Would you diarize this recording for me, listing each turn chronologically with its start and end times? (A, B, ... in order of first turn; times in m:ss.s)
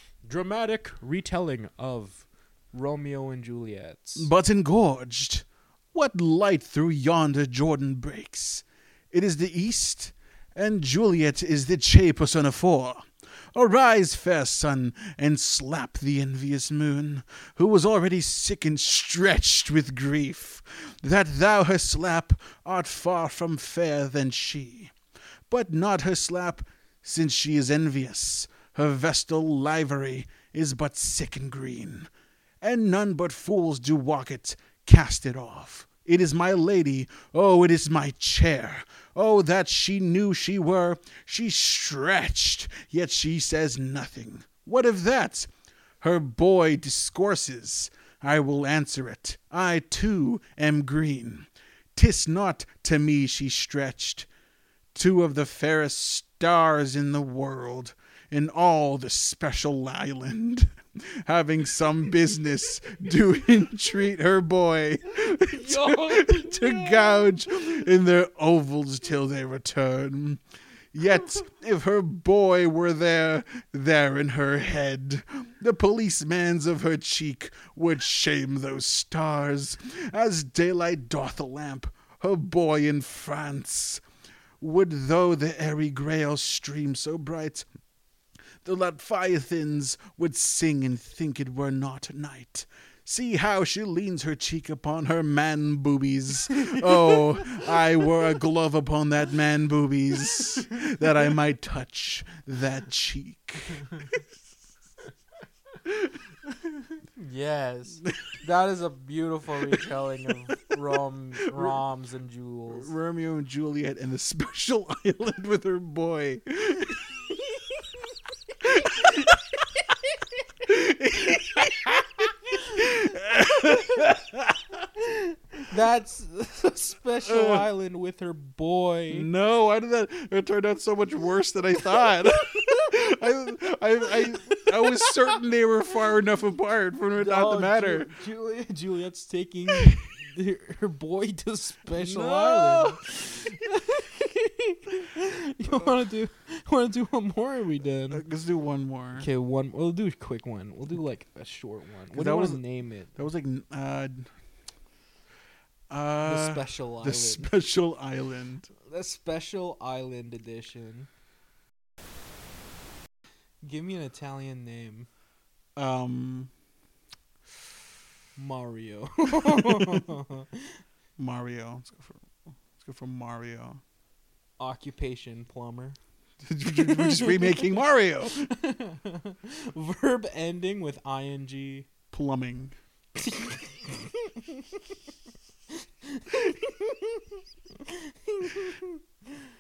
0:00.2-0:04.3 A
0:04.2-0:24.9 B
0:25.5-0:32.1 B
0:32.6-0:45.5 B
0:46.0-0:54.3 B
0:55.0-1:10.4 B
1:05.2-1:07.7 A
1:10.9-1:24.0 B
1:24.6-1:27.7 B
1:28.6-1:43.9 B
1:36.5-1:37.3 A
1:46.9-1:52.9 A
1:51.5-1:51.8 B
1:52.7-1:57.3 B
1:58.6-1:59.6 B
2:00.6-2:04.9 B
2:05.0-2:09.3 A
2:07.2-2:07.7 B
2:09.1-2:18.1 B
2:14.5-2:15.2 A
2:17.1-2:28.2 A
2:19.7-2:20.0 B
2:21.9-2:23.0 B
2:28.1-2:29.3 B
2:29.2-2:33.1 A
2:32.1-2:32.6 B
2:33.2-2:34.3 B
2:35.9-2:38.7 B
2:36.2-2:37.5 A
2:38.8-2:41.1 A
2:43.6-2:45.1 A
2:45.8-2:46.5 B
2:48.4-2:50.8 A
2:49.4-2:50.0 B
2:51.2-2:52.3 B
2:52.8-2:53.8 B
2:54.6-2:56.0 A
2:56.4-2:58.5 B
2:56.7-2:57.7 A
2:58.3-3:01.9 A
3:02.1-3:02.7 B
3:03.2-3:04.8 A
3:05.7-3:09.0 A